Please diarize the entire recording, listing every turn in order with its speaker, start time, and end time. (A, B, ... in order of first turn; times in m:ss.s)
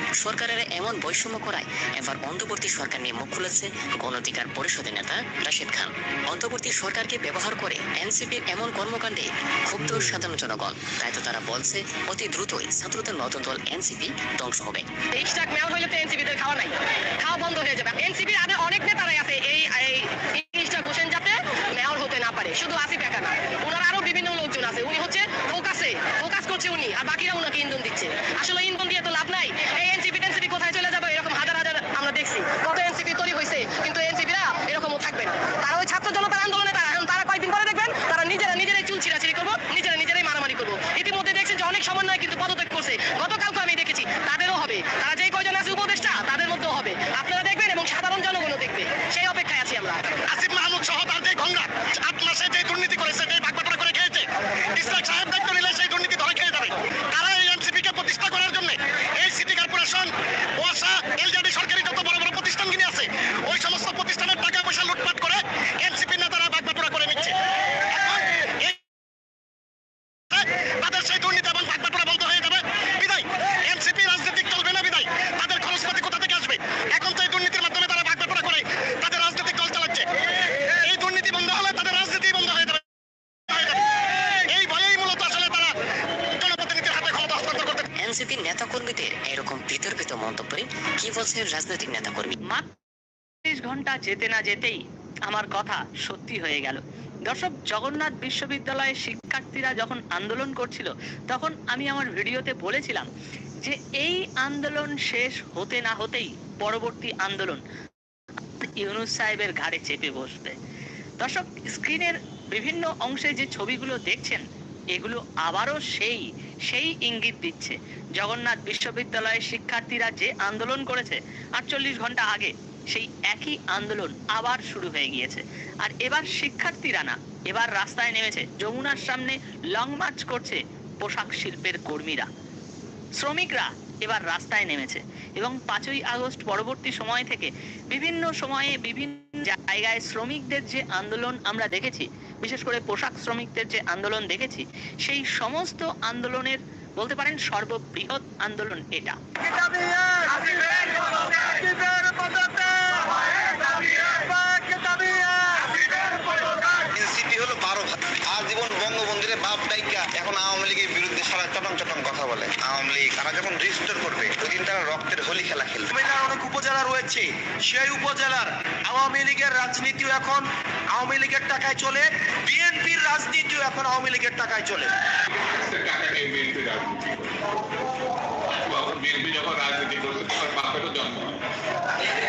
0:00.2-0:14.9 A
0:15.1-0:50.1 B
0:50.3-1:08.8 C
1:10.3-1:20.0 C
1:20.8-1:22.8 C
1:23.5-1:23.8 C
1:24.5-1:25.7 C
1:26.4-1:27.8 C
1:28.0-1:32.4 A
1:33.4-1:43.0 D
1:43.6-1:47.6 D
1:48.8-1:50.5 D
1:51.2-1:54.4 D
1:54.9-2:12.3 D
2:13.2-2:29.2 D
2:36.9-2:45.9 E
2:45.9-2:50.4 F
2:51.0-2:54.9 F
2:55.3-2:57.4 G
2:58.6-3:01.4 G